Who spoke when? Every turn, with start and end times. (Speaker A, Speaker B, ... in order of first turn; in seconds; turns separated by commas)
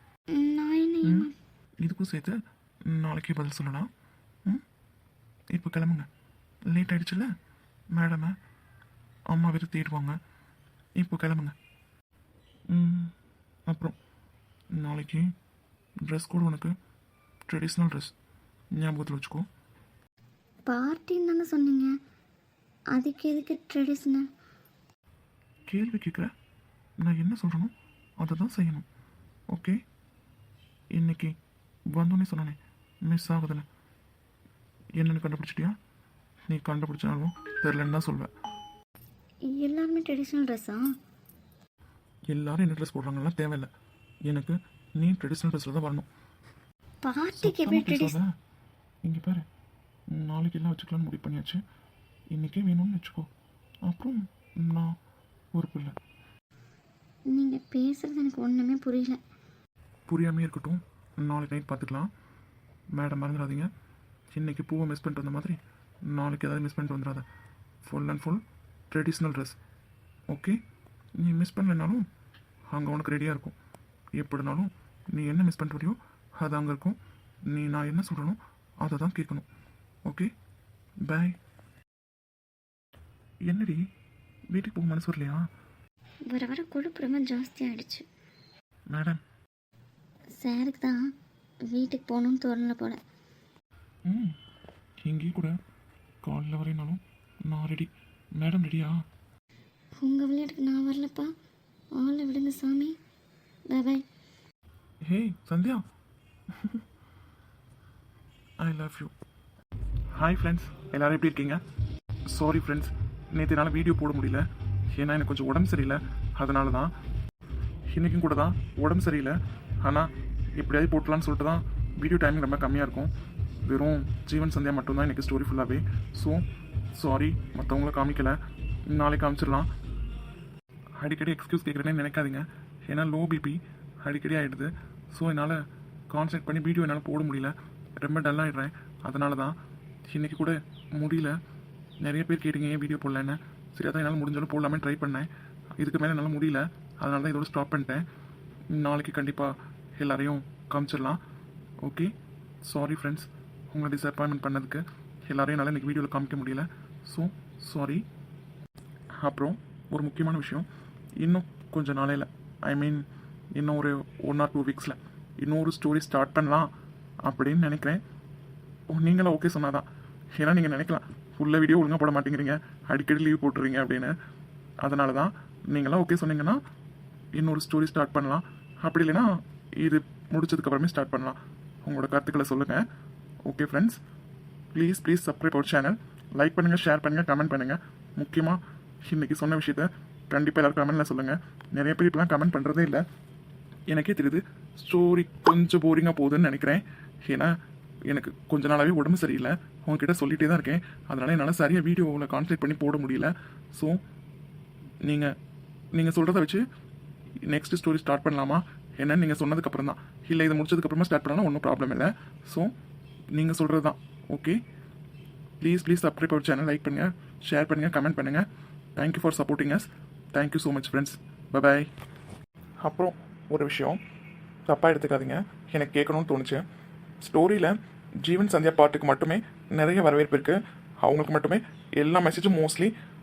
Speaker A: 0.3-1.3, Speaker B: 1.8-2.4, Speaker B: 2.9-3.9, Speaker B: 5.5-6.1, Speaker B: 6.7-7.3, Speaker B: 7.9-8.3, Speaker B: 9.3-10.2, Speaker B: 11.0-11.5, Speaker B: 12.7-13.1, Speaker B: 13.7-13.9, Speaker B: 14.8-15.2, Speaker B: 16.0-16.8, Speaker B: 17.5-18.1, Speaker B: 18.8-19.4, Speaker A: 20.6-21.9, Speaker A: 22.9-24.3, Speaker B: 25.7-26.3, Speaker B: 27.0-28.9, Speaker B: 30.9-31.3, Speaker B: 31.9-33.6, Speaker B: 35.0-35.8, Speaker B: 36.5-38.3, Speaker A: 39.5-40.8, Speaker B: 42.3-43.7, Speaker B: 44.2-46.1, Speaker A: 47.0-48.1, Speaker B: 47.4-48.3, Speaker B: 49.0-49.5, Speaker B: 50.1-51.6, Speaker B: 52.3-53.3, Speaker B: 53.9-54.9, Speaker B: 55.5-55.9, Speaker A: 57.3-59.2, Speaker B: 60.1-62.1, Speaker B: 62.9-63.7, Speaker B: 64.3-65.6, Speaker B: 66.1-67.2, Speaker B: 67.8-69.6, Speaker B: 70.3-70.6, Speaker B: 71.2-72.0, Speaker B: 72.7-73.5, Speaker B: 74.2-77.0, Speaker B: 77.5-79.5, Speaker B: 81.0-81.4, Speaker B: 83.5-83.8, Speaker B: 84.5-85.5, Speaker A: 86.3-88.0, Speaker B: 88.9-89.2, Speaker A: 90.4-91.0, Speaker A: 91.7-93.0, Speaker B: 94.0-94.4, Speaker B: 95.0-95.5, Speaker B: 96.2-98.9, Speaker A: 100.0-101.3, Speaker A: 102.0-103.0, Speaker A: 103.7-104.0, Speaker B: 105.0-105.8, Speaker B: 106.5-106.8, Speaker B: 108.6-109.1, Speaker B: 110.1-111.6, Speaker B: 112.3-116.9, Speaker B: 117.9-123.1, Speaker B: 123.6-129.7, Speaker B: 131.0-139.6, Speaker B: 140.1-141.4, Speaker B: 142.0-148.0, Speaker B: 148.7-151.2, Speaker B: 151.8-152.1, Speaker B: 152.6-158.0, Speaker B: 159.2-160.7, Speaker B: 161.2-166.7, Speaker B: 167.2-168.0, Speaker B: 168.9-174.1, Speaker B: 174.8-176.6, Speaker B: 177.3-182.8, Speaker B: 183.4-184.0, Speaker B: 184.7-193.0, Speaker B: 193.9-197.5, Speaker B: 198.1-204.0, Speaker B: 205.0-205.3, Speaker B: 205.9-206.6, Speaker B: 207.5-212.7, Speaker B: 213.3-214.6, Speaker B: 215.6-221.9, Speaker B: 222.8-224.0, Speaker B: 224.7-226.6, Speaker B: 227.2-232.9